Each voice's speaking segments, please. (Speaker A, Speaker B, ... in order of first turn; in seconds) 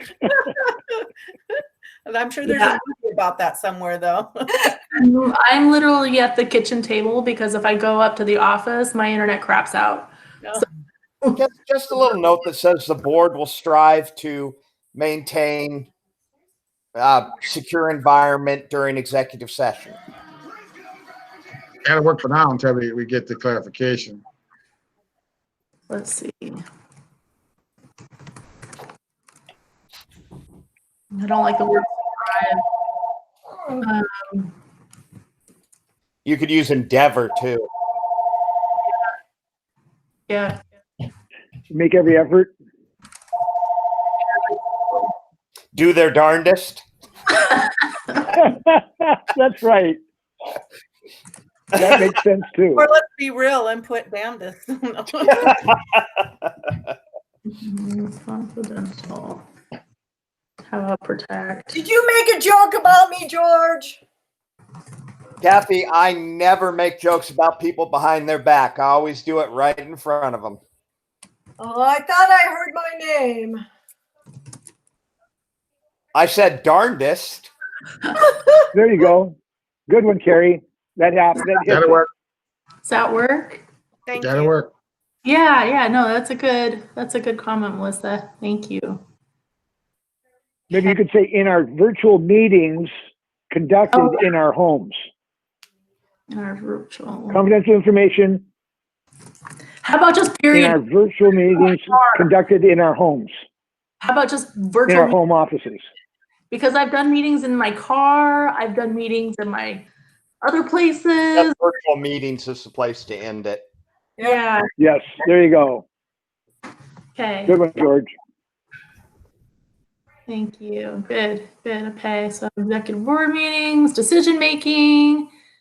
Speaker A: 0.7-1.1, 2.1-4.5, 52.8-55.6, 84.1-84.5
Speaker B: 2.5-2.8, 4.9-10.6, 25.9-26.6, 31.1-32.6, 33.8-34.5, 40.3-40.6, 57.5-59.4, 60.7-61.8, 82.8-83.6, 85.2-89.0, 93.9-94.2, 96.3-97.4, 99.8-100.8, 101.6-102.2, 104.0-105.2, 106.5-109.8, 110.4-111.5, 114.2-114.7, 117.2-117.6, 120.3-125.3
Speaker C: 11.3-15.9, 17.0-19.9, 36.2-37.6, 45.8-46.8, 65.4-70.6, 76.1-77.5, 111.4-113.6
Speaker D: 21.9-24.2, 81.7-82.1, 84.2-84.7
Speaker E: 41.7-42.5, 48.3-50.0, 51.7-52.9, 78.7-79.4, 79.9-82.0, 90.7-92.9, 93.5-95.0, 97.3-98.4, 100.5-103.3, 104.9-105.8, 114.8-115.8, 117.5-118.1
Speaker F: 61.7-64.0, 71.6-73.6